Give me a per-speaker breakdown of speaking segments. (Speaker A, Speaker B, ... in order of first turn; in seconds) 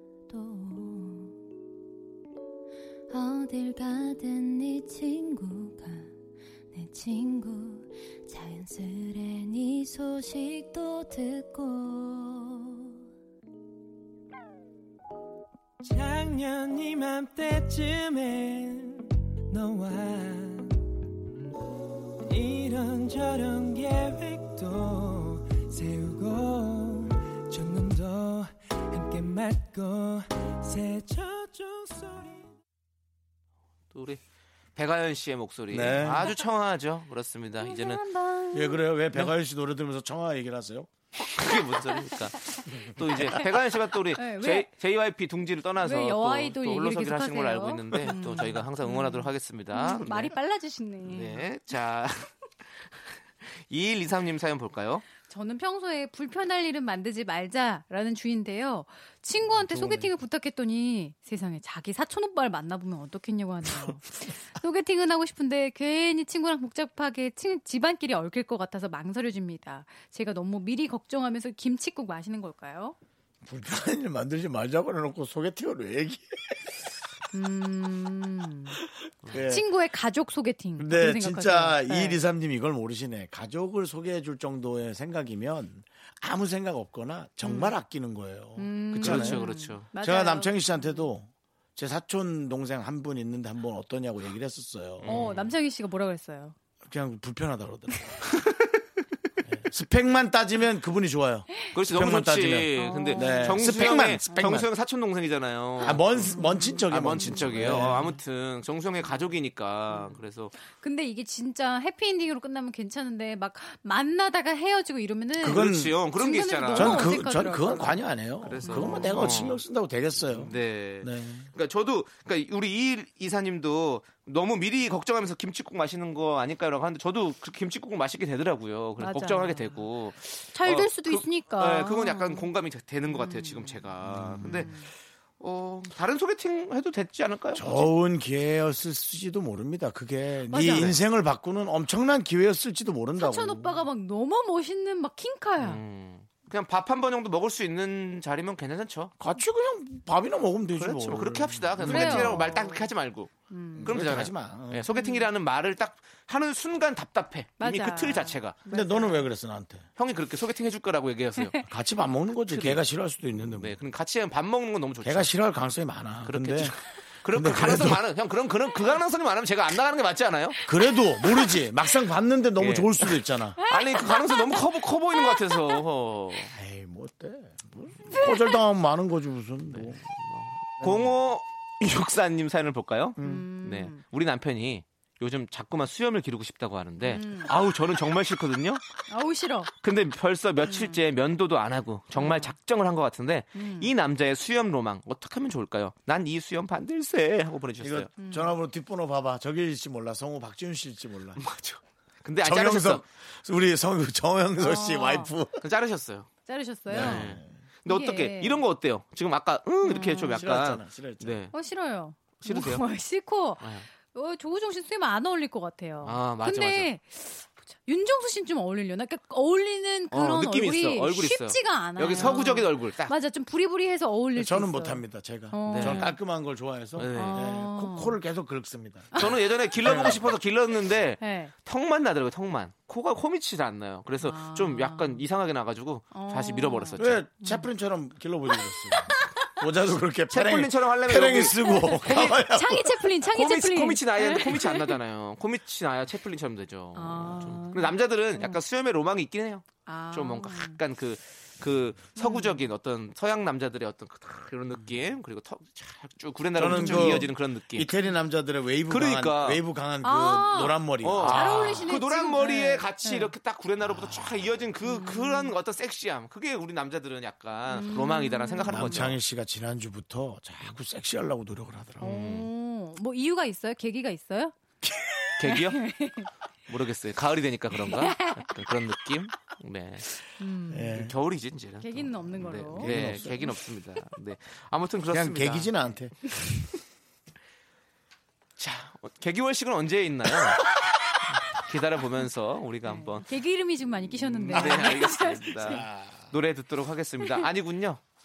Speaker A: 0.3-1.4, 3.1-6.1, 6.7-12.9
Speaker B: 15.8-20.8, 22.2-32.5
Speaker C: 33.9-34.2, 34.8-38.0, 41.2-50.4, 51.0-52.9, 53.4-55.0, 88.9-89.9, 95.0-95.5, 101.7-110.5, 115.4-117.2, 118.4-119.6, 120.2-134.8, 135.4-137.9, 140.6-141.0, 145.6-149.1, 150.8-158.6, 160.0-161.6, 162.5-162.8, 163.5-165.3, 166.2-170.6, 172.6-176.5, 179.7-188.8, 189.8-198.1, 201.4-203.0, 205.6-206.3, 206.9-211.5, 212.4-212.8, 213.6-213.9, 216.0-216.9, 220.1-223.1, 225.7-226.2, 227.0-227.6, 229.1-237.2, 240.3-242.3, 243.3-257.9, 258.9-259.6, 261.0-269.2, 272.0-272.5, 275.4-275.8, 276.7-280.1, 280.9-285.7, 288.6-290.6, 291.5-293.3, 294.1-298.0
Speaker D: 35.7-36.3, 38.5-40.9, 59.5-60.1, 73.4-76.5, 79.3-79.7, 80.8-89.4, 90.0-95.2, 96.8-98.2, 99.5-104.7, 105.8-108.1, 115.4-116.0, 116.7-121.5, 134.1-134.7, 137.5-143.8, 149.2-152.5, 153.8-154.8, 158.7-159.9, 161.7-163.8, 165.0-166.8, 167.3-168.0, 170.7-173.6, 176.5-180.0, 180.8-181.1, 183.2-183.5, 197.8-201.4, 202.4-205.6, 206.9-207.5, 210.2-211.5, 224.3-230.3, 237.0-243.1, 256.5-261.9, 268.7-272.2, 280.7-281.1, 282.8-283.4, 285.1-286.2, 294.5-295.1, 295.6-296.3
Speaker E: 36.0-36.5, 37.6-38.9, 43.1-44.7, 45.8-51.5, 55.2-73.0, 77.3-78.8, 79.3-82.2, 87.4-87.7, 88.6-91.0, 95.1-96.5, 102.8-104.5, 106.2-107.9, 109.9-118.0, 118.6-119.4, 129.0-129.8, 130.5-132.5, 133.1-134.9, 140.5-140.9, 143.2-145.8, 151.8-152.9, 153.5-154.1, 154.9-155.3, 157.6-159.3, 161.4-161.7, 173.6-175.8, 178.1-178.6, 183.2-184.0, 187.0-187.5, 189.1-189.7, 190.6-191.0, 192.1-192.5, 193.5-193.9, 198.2-198.6, 204.6-205.3, 206.4-207.3, 207.8-208.6, 209.8-210.4, 211.5-226.2, 227.1-228.2, 231.2-231.5, 234.2-235.2, 236.1-237.7, 238.5-239.3, 241.7-245.0, 246.9-248.6, 249.8-250.8, 252.2-252.7, 256.7-257.2, 260.0-263.3, 264.8-265.5, 267.7-269.1, 272.0-274.5, 275.4-276.3, 277.7-278.6, 280.4-281.0, 281.8-283.6, 292.8-295.8